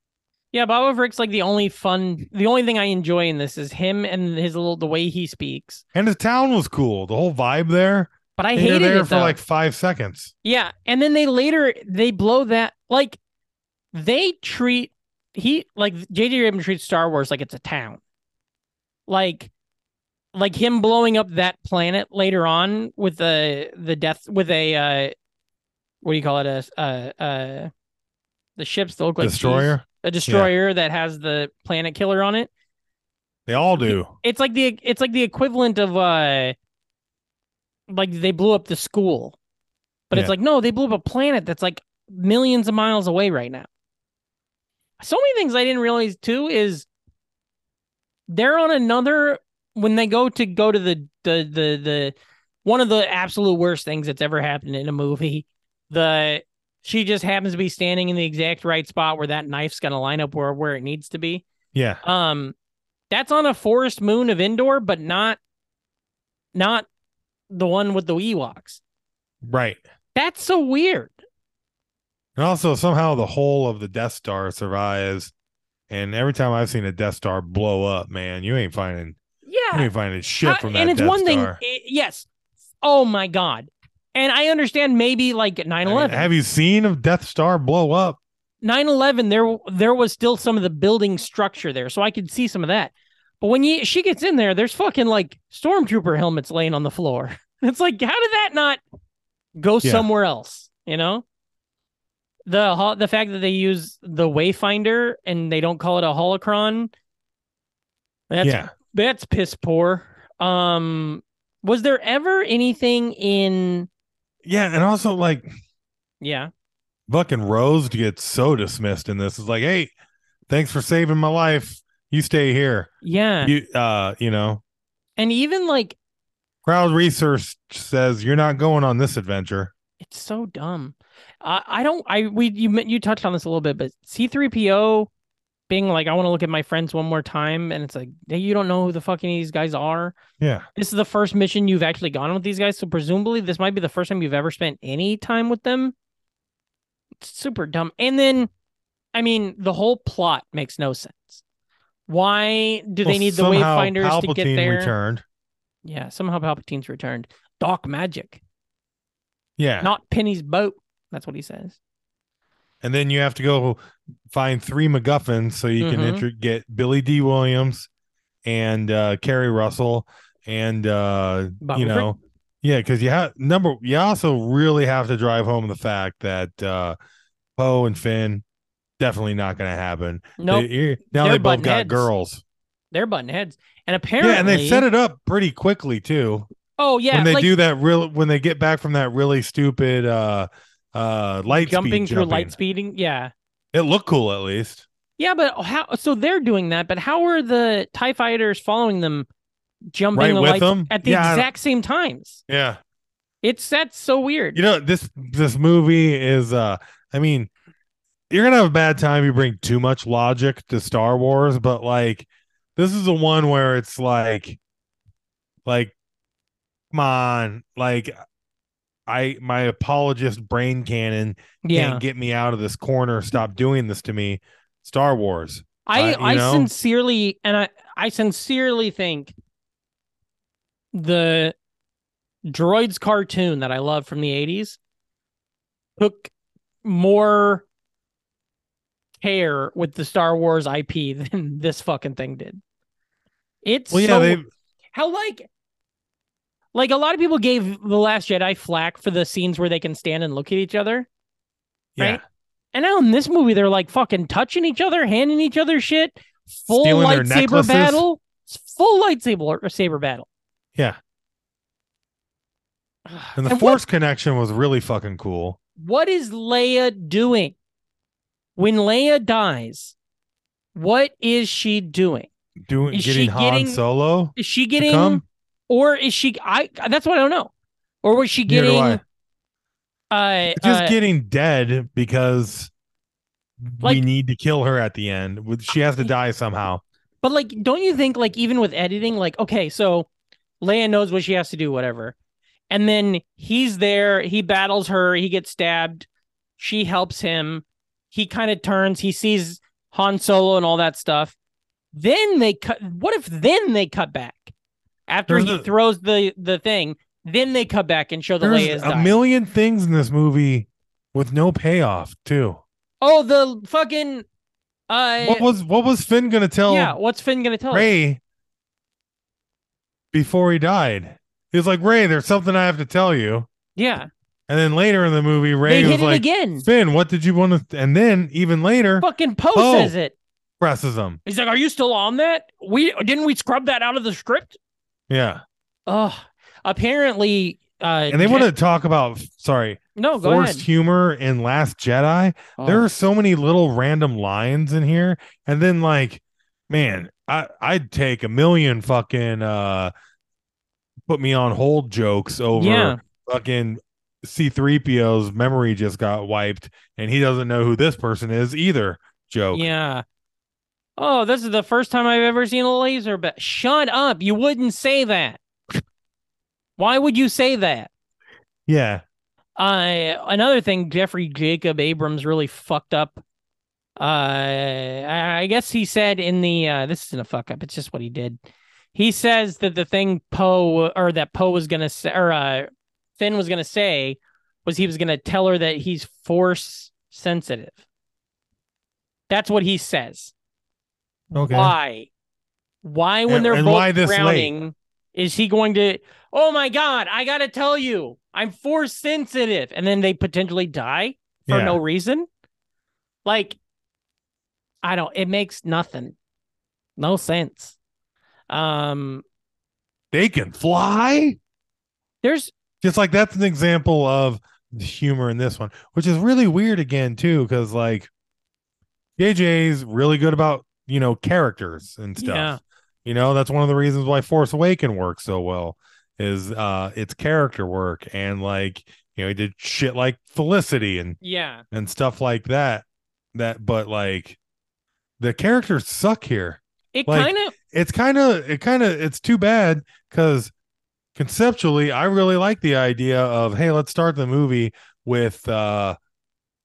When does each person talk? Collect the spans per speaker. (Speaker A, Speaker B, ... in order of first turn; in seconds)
Speaker A: 0.5-5.8, 8.4-9.4, 10.4-13.2, 13.9-18.0, 19.1-19.5, 20.3-25.1, 26.0-27.7, 28.6-32.5, 33.8-36.5, 37.9-39.4, 40.1-43.7, 45.0-46.9, 48.3-61.4, 62.0-62.5, 63.1-65.4, 66.5-66.9, 67.5-68.8, 70.1-71.2, 79.4-79.9, 80.4-82.3, 82.8-86.3, 88.6-98.8, 99.5-101.2, 102.5-106.9, 108.3-113.9, 116.2-116.5, 123.0-123.5, 125.2-126.0, 130.0-135.1, 135.7-140.2, 140.7-145.9, 147.2-148.5, 149.1-151.4, 152.1-154.9, 155.8-158.4, 159.8-161.8, 165.8-166.2, 171.6-172.1, 180.4-182.1, 182.9-184.8, 186.8-187.5, 191.5-193.3, 195.2-199.3, 199.9-202.4, 203.4-204.6, 221.6-222.0, 225.8-229.3, 230.9-231.5, 232.4-234.8, 236.0-236.3, 236.8-237.6, 239.2-242.6, 243.6-244.4, 244.9-245.5, 246.7-251.1, 252.7-260.3, 263.1-263.8, 265.8-267.5, 268.6-269.9, 270.7-272.3, 272.9-273.8, 274.4-277.5, 278.0-279.0, 280.1-280.9, 287.2-290.1, 290.6-292.1, 292.7-296.1, 296.6-301.4, 301.9-304.5, 305.1-309.1, 313.0-314.2, 314.9-315.5, 316.7-317.9, 323.8-324.1, 325.6-326.6, 329.0-330.1, 331.2-334.6, 335.9-338.5, 339.9-340.6, 342.6-342.9, 352.6-353.0, 359.5-360.0, 361.0-365.4, 366.8-367.9, 369.6-373.2, 374.0-378.4, 378.9-387.8, 389.3-390.3, 391.4-392.1, 392.8-402.3, 403.2-403.6, 404.8-406.1, 407.0-407.8, 408.5-409.2, 412.2-412.5, 422.2-422.6, 431.2-431.6, 436.9-437.5
Speaker B: 5.9-10.3, 29.2-30.5, 33.5-34.1, 61.7-62.0, 69.4-69.8, 72.3-75.3, 75.9-79.2, 79.7-81.6, 85.8-88.2, 108.4-108.7, 114.4-115.5, 117.1-119.9, 120.5-122.9, 123.4-124.6, 126.6-129.7, 140.4-140.7, 153.0-155.2, 159.6-159.9, 162.8-163.8, 164.3-167.9, 168.4-177.0, 177.6-178.4, 179.0-182.4, 184.2-186.5, 187.1-192.5, 193.7-194.8, 200.1-201.5, 202.5-202.8, 204.5-207.5, 208.3-214.6, 215.7-215.9, 216.9-218.1, 219.1-226.7, 243.9-244.5, 251.9-252.2, 256.7-258.0, 263.4-265.6, 272.6-275.2, 278.5-279.0, 280.5-282.7, 283.6-286.8, 305.3-305.7, 308.4-312.6, 315.2-316.9, 317.7-318.2, 320.1-323.5, 324.5-329.9, 330.6-331.2, 335.1-335.4, 338.1-349.9, 351.1-359.7, 368.7-369.0, 391.3-391.7, 393.3-394.5, 401.5-401.8, 410.1-411.4, 412.8-418.1, 419.2-431.2, 431.7-434.4, 435.2-440.5, 441.1-446.0